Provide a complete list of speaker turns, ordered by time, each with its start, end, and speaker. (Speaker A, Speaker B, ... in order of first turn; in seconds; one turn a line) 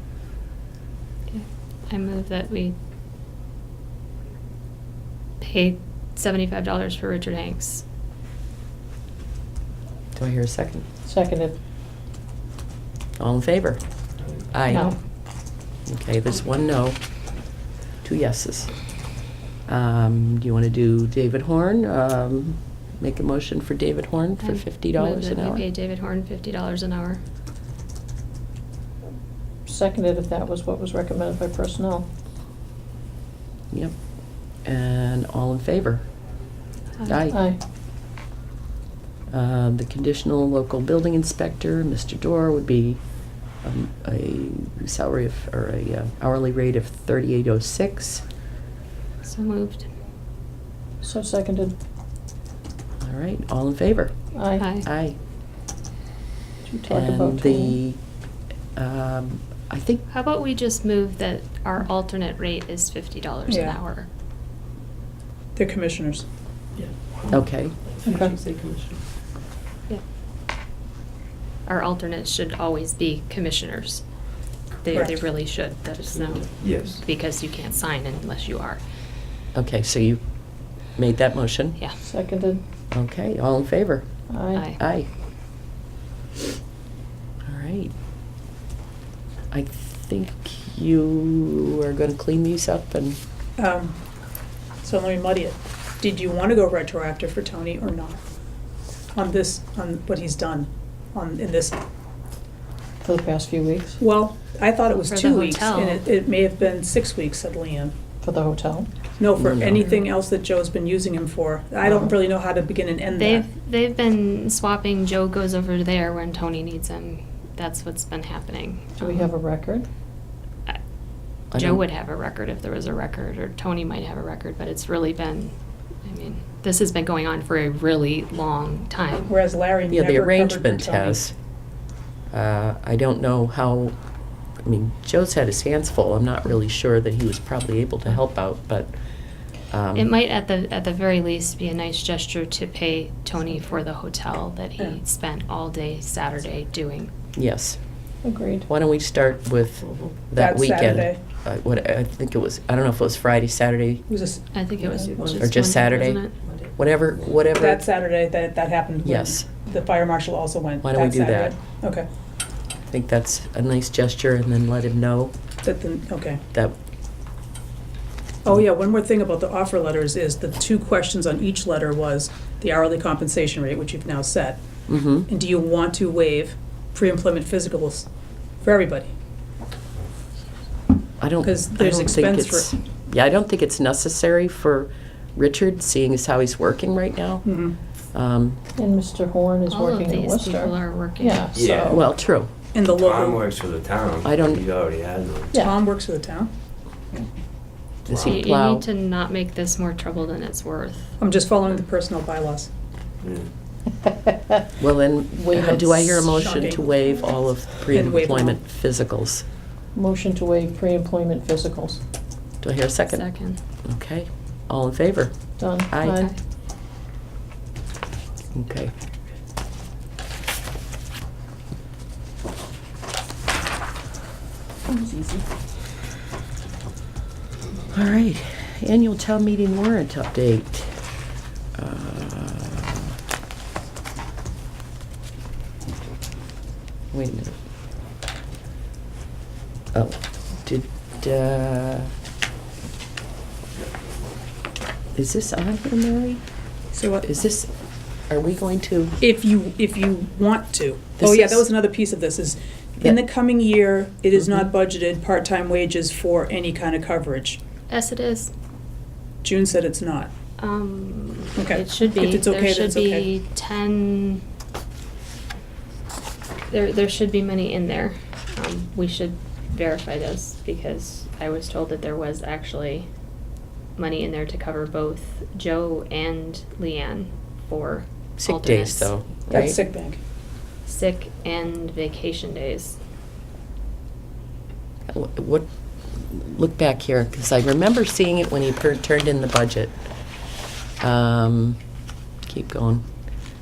Speaker A: 1.3-2.8
Speaker A: 5.4-7.8
Speaker B: 10.2-10.8
Speaker C: 11.1-11.6
Speaker B: 13.2-13.8
Speaker B: 14.4-14.9
Speaker C: 14.7-15.0
Speaker B: 15.9-17.0
Speaker B: 18.0-18.9
Speaker B: 19.7-25.6
Speaker A: 24.4-27.2
Speaker C: 29.7-32.1
Speaker B: 34.6-36.1
Speaker B: 37.1-37.4
Speaker C: 37.3-37.6
Speaker B: 39.3-43.0
Speaker B: 43.6-48.2
Speaker A: 49.2-49.9
Speaker C: 51.0-51.8
Speaker B: 53.0-54.1
Speaker C: 54.3-54.7
Speaker A: 54.6-54.9
Speaker B: 54.8-55.2
Speaker C: 56.7-57.8
Speaker B: 56.9-58.0
Speaker B: 58.8-60.0
Speaker A: 60.1-64.1
Speaker D: 63.5-63.8
Speaker D: 65.5-66.2
Speaker E: 66.8-67.3
Speaker B: 67.3-67.8
Speaker E: 67.9-69.0
Speaker C: 68.0-68.3
Speaker A: 71.7-74.0
Speaker A: 74.8-78.8
Speaker D: 74.9-75.2
Speaker E: 76.6-77.0
Speaker B: 79.5-80.2
Speaker B: 80.9-81.8
Speaker C: 82.0-82.6
Speaker B: 82.9-84.1
Speaker C: 84.3-84.7
Speaker B: 84.8-85.1
Speaker B: 87.5-87.9
Speaker B: 89.5-93.2
Speaker D: 93.6-94.0
Speaker D: 94.8-98.2
Speaker D: 99.1-101.8
Speaker C: 103.0-104.0
Speaker D: 104.0-108.0
Speaker A: 105.1-106.0
Speaker C: 108.2-108.9
Speaker D: 109.2-113.5
Speaker B: 109.4-109.8
Speaker A: 113.2-119.3
Speaker C: 119.0-119.9
Speaker B: 121.5-121.8
Speaker A: 121.5-125.5
Speaker A: 126.0-129.3
Speaker D: 129.3-131.2
Speaker B: 129.9-131.3
Speaker B: 132.3-134.0
Speaker B: 134.7-138.9
Speaker B: 139.7-140.1
Speaker A: 139.9-147.1
Speaker B: 147.3-147.8
Speaker C: 148.2-148.7
Speaker B: 148.7-154.0
Speaker D: 150.4-151.2
Speaker D: 154.1-155.1
Speaker A: 154.5-156.4
Speaker C: 155.3-155.5
Speaker B: 155.4-157.8
Speaker D: 157.5-162.1
Speaker B: 159.0-159.4
Speaker B: 160.8-161.5
Speaker B: 162.9-165.3
Speaker D: 165.6-166.4
Speaker D: 168.4-174.6
Speaker B: 174.9-175.3
Speaker D: 175.3-178.1
Speaker D: 178.6-179.1
Speaker B: 181.2-187.5
Speaker D: 181.4-182.7
Speaker D: 187.4-187.8
Speaker B: 188.1-188.6
Speaker C: 188.8-192.1
Speaker A: 189.7-191.6
Speaker E: 191.6-192.0
Speaker B: 191.9-192.5
Speaker D: 192.7-193.5
Speaker E: 192.9-195.6
Speaker B: 194.2-194.6
Speaker D: 195.5-196.5
Speaker B: 198.1-198.9
Speaker E: 198.1-198.5
Speaker A: 198.2-201.1
Speaker D: 201.2-202.7
Speaker E: 203.2-203.5
Speaker C: 204.1-204.6
Speaker B: 204.8-209.4
Speaker C: 205.4-206.4
Speaker D: 206.3-207.0
Speaker D: 207.9-208.6
Speaker C: 209.9-212.0
Speaker B: 212.6-213.2
Speaker A: 213.1-213.6
Speaker B: 213.8-215.3
Speaker C: 215.6-216.3
Speaker B: 215.9-216.2
Speaker B: 218.5-218.9
Speaker C: 224.9-225.4
Speaker B: 227.9-231.0
Speaker B: 231.8-233.1
Speaker B: 237.1-237.6
Speaker B: 239.9-242.1
Speaker B: 245.2-246.4
Speaker D: 246.9-247.2
Speaker B: 247.2-247.7
Speaker B: 248.3-249.2
Speaker D: 249.2-257.6
Speaker B: 251.2-251.7
Speaker B: 254.3-254.7
Speaker A: 257.9-258.5
Speaker D: 259.4-260.3
Speaker A: 260.6-264.4
Speaker D: 261.6-263.3
Speaker A: 266.7-273.1
Speaker A: 274.0-279.2
Speaker B: 278.4-279.8
Speaker D: 279.5-280.2
Speaker A: 280.9-283.0
Speaker B: 285.1-289.9
Speaker B: 291.0-291.8
Speaker B: 292.4-293.1